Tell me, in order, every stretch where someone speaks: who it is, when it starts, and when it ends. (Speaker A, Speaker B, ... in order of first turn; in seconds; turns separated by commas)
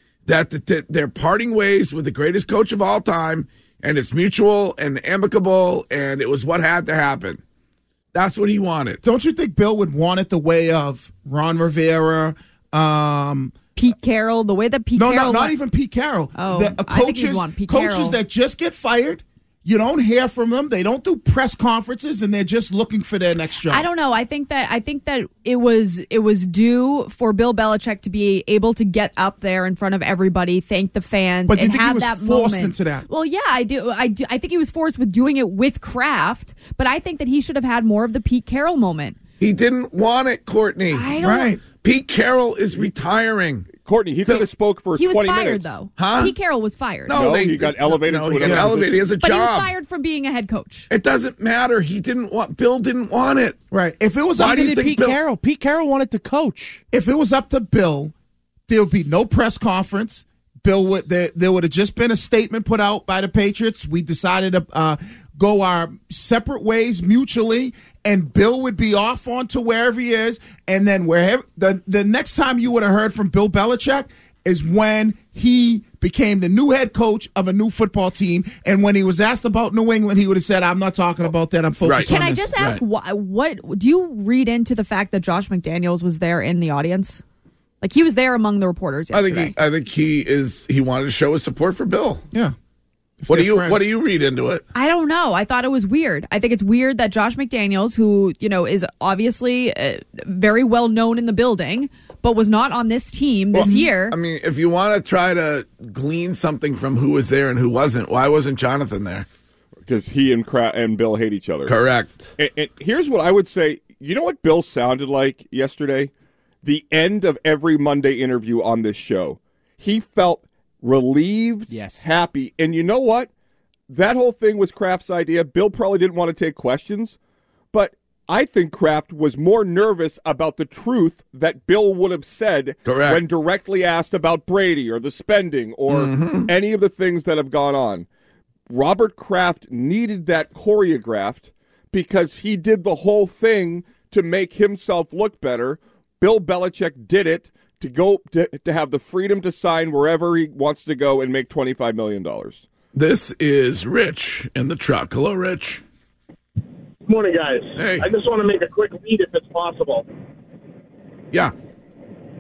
Speaker A: 0.2-7.4, Speaker A: 8.1-9.0, Speaker B: 9.0-13.6, Speaker C: 13.8-15.5, Speaker B: 14.9-23.8, Speaker C: 16.4-18.2, Speaker C: 23.7-39.2, Speaker B: 31.5-33.0, Speaker A: 39.4-41.1, Speaker C: 40.9-41.5, Speaker B: 41.2-41.6, Speaker A: 41.7-43.7, Speaker D: 43.8-45.7, Speaker C: 45.0-47.3, Speaker A: 46.0-46.3, Speaker A: 47.1-49.7, Speaker D: 47.1-49.1, Speaker B: 48.4-48.7, Speaker C: 49.2-50.9, Speaker A: 50.9-53.6, Speaker B: 53.7-54.6, Speaker A: 54.4-55.2, Speaker E: 54.4-56.8, Speaker B: 56.9-58.1, Speaker B: 58.7-82.5, Speaker A: 81.8-82.8, Speaker C: 82.0-87.2, Speaker C: 87.8-89.5, Speaker A: 89.1-92.2, Speaker B: 93.2-93.9, Speaker A: 93.3-94.6, Speaker C: 94.7-104.2, Speaker B: 103.6-103.8, Speaker A: 103.6-109.2, Speaker D: 109.8-111.7, Speaker A: 111.7-112.3, Speaker D: 112.4-116.1, Speaker D: 116.6-123.3, Speaker E: 121.7-122.0, Speaker D: 123.9-127.2, Speaker D: 127.7-138.1, Speaker A: 132.9-133.2, Speaker A: 135.9-136.5, Speaker D: 138.7-152.6, Speaker A: 152.9-155.8, Speaker F: 157.1-160.0, Speaker A: 157.8-158.1